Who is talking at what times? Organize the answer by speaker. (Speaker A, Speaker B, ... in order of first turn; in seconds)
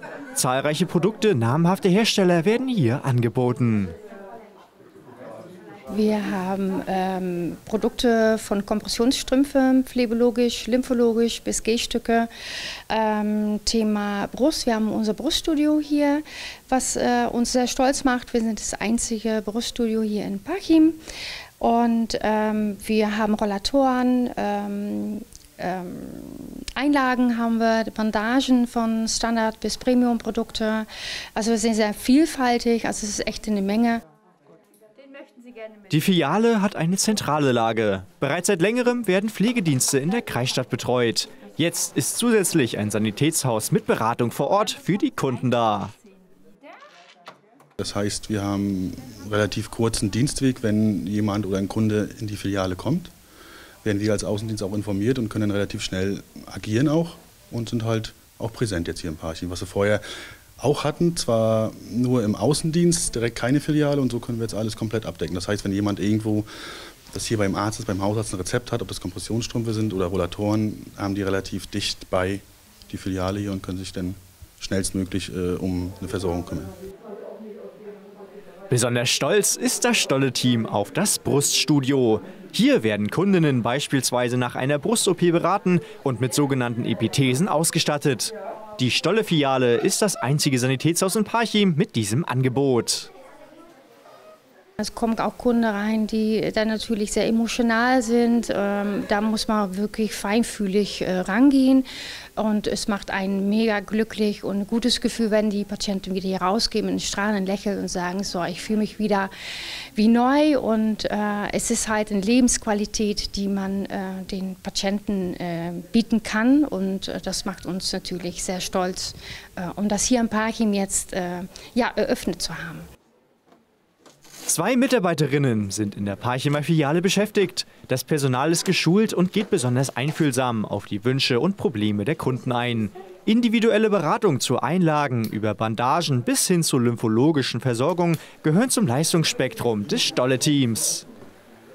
Speaker A: 0.3-3.9, 35.9-45.9, 78.7-93.1, 124.4-141.1
Speaker B: 5.9-12.3, 12.9-21.0, 21.6-34.0, 94.8-101.8, 102.4-109.3, 109.9-122.8
Speaker C: 47.8-53.1, 53.8-60.0, 60.6-66.5, 67.1-76.7